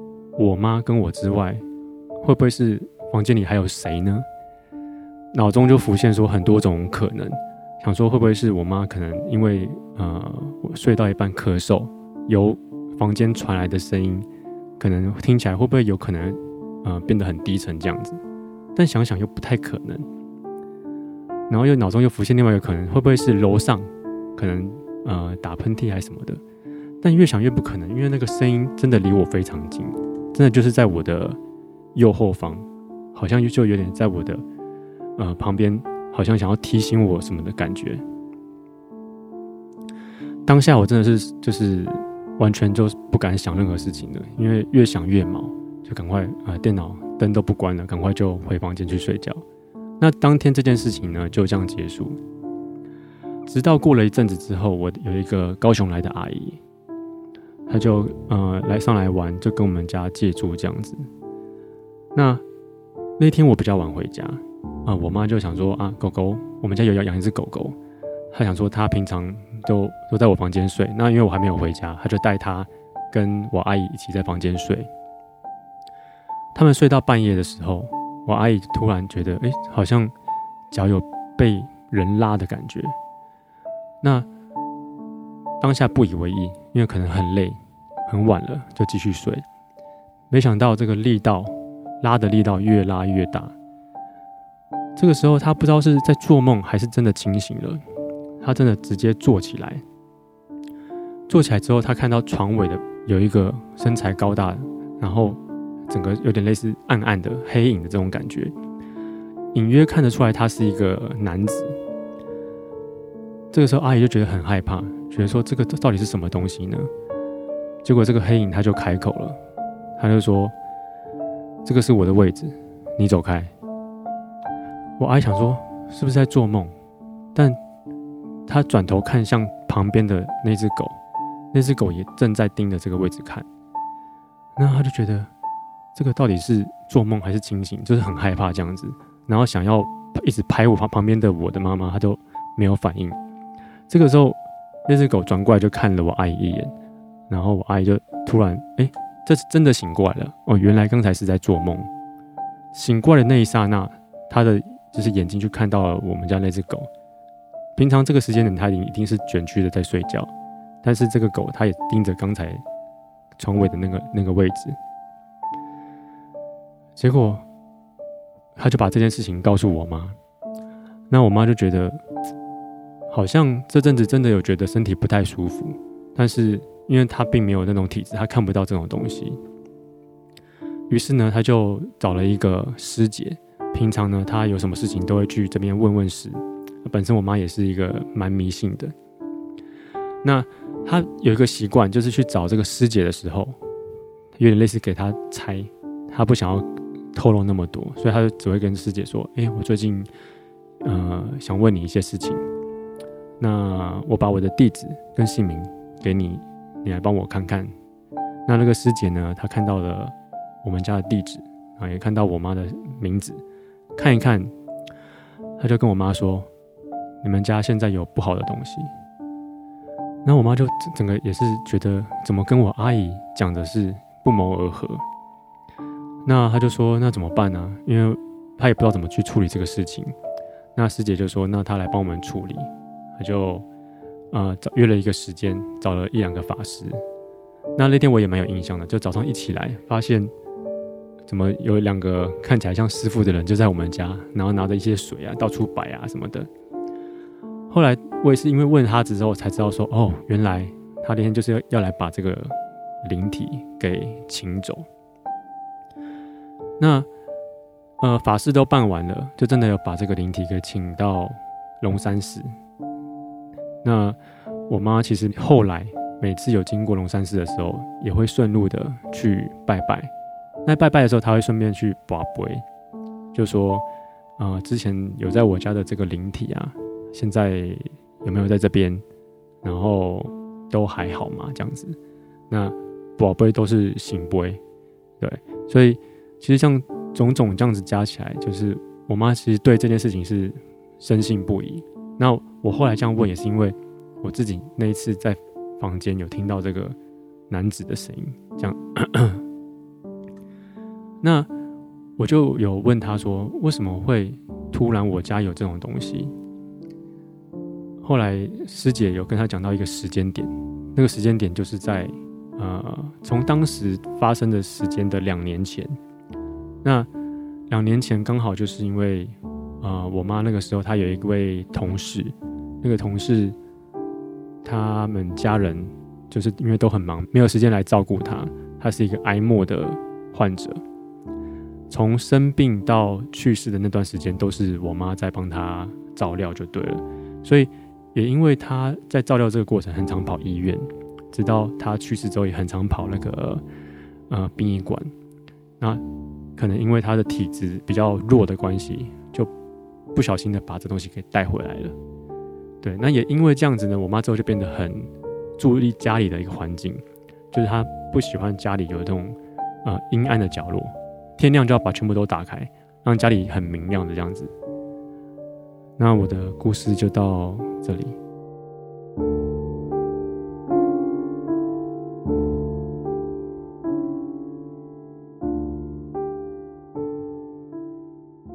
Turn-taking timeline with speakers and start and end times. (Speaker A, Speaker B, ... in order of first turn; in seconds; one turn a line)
Speaker A: 0.4-1.6
Speaker A: 2.2-4.2
Speaker A: 5.3-14.2
Speaker A: 14.8-18.2
Speaker A: 18.8-20.1
Speaker A: 21.5-26.4
Speaker A: 27.0-31.4
Speaker A: 31.9-34.4
Speaker A: 35.2-38.0
Speaker A: 40.5-49.4
Speaker A: 50.0-52.2
Speaker A: 53.5-56.6
Speaker A: 57.7-61.0
Speaker A: 62.1-62.4
Speaker A: 63.2-67.8
Speaker A: 68.3-74.9
Speaker A: 76.5-80.1
Speaker A: 80.7-82.9
Speaker A: 84.0-84.3
Speaker A: 85.6-89.4
Speaker A: 90.3-93.5
Speaker A: 95.0-97.8
Speaker A: 98.4-99.8
Speaker A: 101.3-108.5
Speaker A: 109.5-111.7
Speaker A: 113.5-116.9
Speaker A: 117.8-119.4
Speaker A: 120.0-120.5
Speaker A: 121.6-123.5
Speaker A: 125.0-126.7
Speaker A: 128.5-131.0
Speaker A: 131.5-133.4
Speaker A: 134.6-135.3
Speaker A: 135.9-143.2
Speaker A: 143.9-146.7
Speaker A: 147.3-151.9
Speaker A: 152.7-156.9
Speaker A: 157.8-160.3
Speaker A: 160.8-162.6
Speaker A: 163.4-164.8
Speaker A: 167.0-167.4
Speaker A: 168.6-170.2
Speaker A: 171.1-172.0
Speaker A: 173.1-179.4
Speaker A: 180.9-188.9
Speaker A: 190.2-193.6
Speaker A: 194.4-200.1
Speaker A: 200.8-202.4
Speaker A: 203.4-207.7
Speaker A: 208.5-213.4
Speaker A: 214.0-214.5
Speaker A: 215.6-216.5
Speaker A: 217.2-218.9
Speaker A: 220.2-225.0
Speaker A: 226.2-230.1
Speaker A: 230.8-233.6
Speaker A: 234.3-237.0
Speaker A: 237.8-240.3
Speaker A: 241.3-246.5
Speaker A: 247.7-254.9
Speaker A: 256.8-257.1
Speaker A: 258.0-262.5
Speaker A: 263.8-264.2
Speaker A: 264.7-270.1
Speaker A: 270.6-272.6
Speaker A: 273.3-273.8
Speaker A: 274.4-279.0
Speaker A: 279.6-282.0
Speaker A: 282.5-284.6
Speaker A: 285.2-296.9
Speaker A: 297.5-299.4
Speaker A: 301.2-301.5
Speaker A: 302.2-306.3
Speaker A: 308.0-316.0
Speaker A: 316.8-317.1
Speaker A: 317.7-323.5
Speaker A: 324.6-330.8
Speaker A: 331.9-343.6
Speaker A: 344.3-345.1
Speaker A: 346.6-349.5
Speaker A: 350.1-351.9
Speaker A: 352.8-364.5
Speaker A: 366.0-368.1